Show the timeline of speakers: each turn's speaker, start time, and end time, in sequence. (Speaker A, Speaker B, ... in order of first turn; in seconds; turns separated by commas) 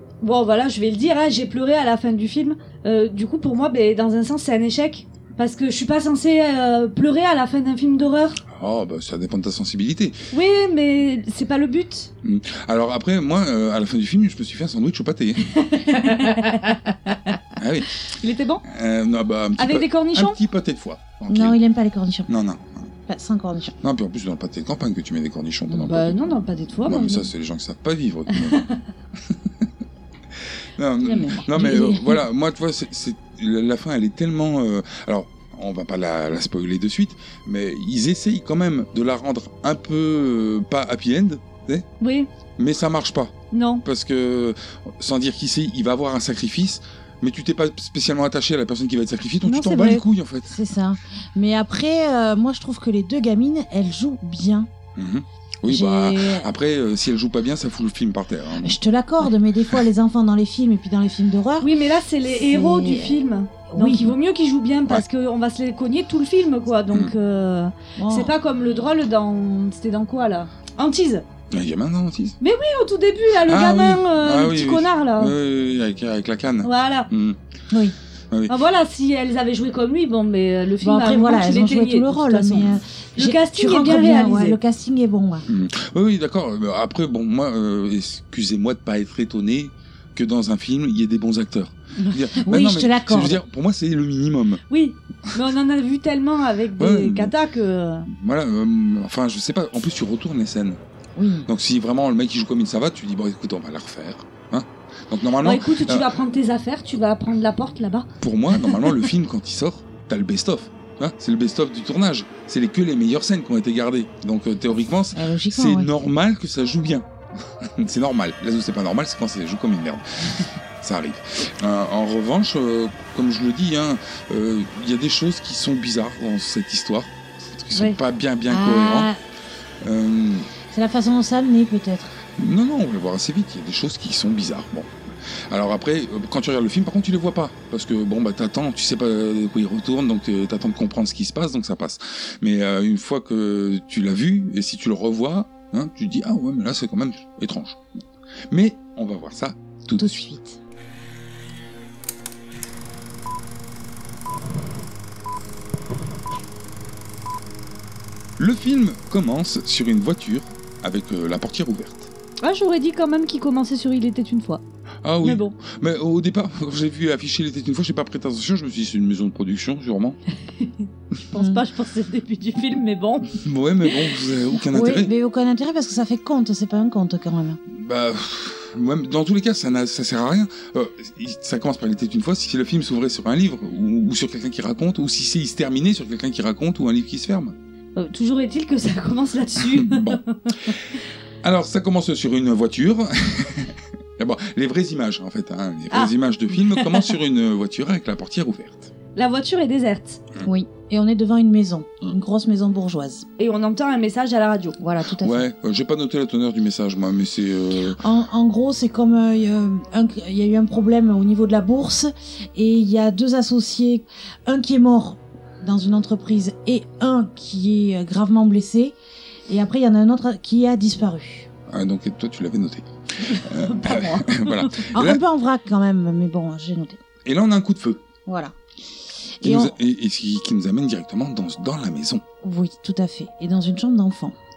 Speaker A: 0.2-8.4, Speaker B: 8.5-10.2, Speaker A: 10.3-12.1, Speaker B: 12.2-15.4, Speaker A: 15.5-16.8, Speaker B: 17.6-18.0, Speaker A: 18.2-18.6, Speaker B: 18.6-21.6, Speaker A: 19.6-20.4, Speaker C: 21.3-22.3, Speaker B: 22.3-22.9, Speaker C: 23.1-23.8, Speaker B: 23.8-28.6, Speaker A: 25.8-27.3, Speaker A: 28.3-28.7, Speaker B: 29.3-29.6, Speaker B: 30.8-41.9, Speaker C: 31.0-32.2, Speaker A: 31.1-31.7, Speaker A: 42.0-42.3, Speaker B: 42.6-43.3, Speaker A: 43.5-43.8, Speaker B: 43.8-50.6, Speaker A: 49.4-50.0, Speaker C: 50.5-54.7, Speaker B: 55.0-58.7, Speaker C: 55.6-56.5, Speaker C: 58.6-61.7, Speaker A: 61.6-71.2, Speaker C: 62.2-64.2, Speaker C: 68.0-68.3, Speaker B: 71.5-72.4, Speaker A: 72.4-75.3, Speaker B: 73.4-77.4, Speaker A: 76.6-77.1, Speaker C: 77.7-78.0, Speaker A: 78.5-84.6, Speaker C: 80.8-85.5, Speaker B: 85.5-94.6, Speaker C: 92.3-93.4, Speaker A: 94.7-98.1, Speaker B: 96.8-97.3, Speaker B: 98.1-100.8, Speaker C: 101.2-101.5, Speaker B: 101.5-106.1, Speaker A: 105.4-108.1, Speaker B: 108.2-117.1, Speaker C: 115.1-115.9, Speaker B: 117.6-129.1, Speaker C: 128.5-129.2, Speaker B: 129.8-130.5, Speaker C: 130.7-132.1, Speaker B: 132.4-134.9, Speaker B: 135.5-147.8, Speaker B: 148.5-150.3, Speaker C: 149.9-150.6, Speaker B: 158.4-162.1, Speaker A: 162.4-164.6, Speaker B: 165.0-170.2, Speaker A: 165.2-165.6, Speaker A: 170.5-173.3, Speaker C: 171.3-171.6, Speaker B: 173.3-175.1, Speaker C: 174.7-177.6, Speaker B: 177.7-187.6, Speaker A: 187.9-190.7, Speaker B: 189.6-190.7, Speaker B: 191.4-198.9, Speaker A: 196.7-197.1, Speaker A: 199.2-200.2, Speaker C: 200.4-203.2, Speaker A: 203.4-204.8, Speaker C: 204.8-205.5, Speaker B: 205.2-208.0, Speaker C: 208.0-218.9, Speaker C: 219.5-221.5, Speaker B: 221.7-225.2, Speaker A: 223.2-224.8, Speaker C: 224.9-227.0, Speaker B: 227.2-228.0, Speaker C: 228.2-228.6, Speaker C: 229.4-229.7, Speaker B: 229.4-232.2, Speaker C: 232.4-234.3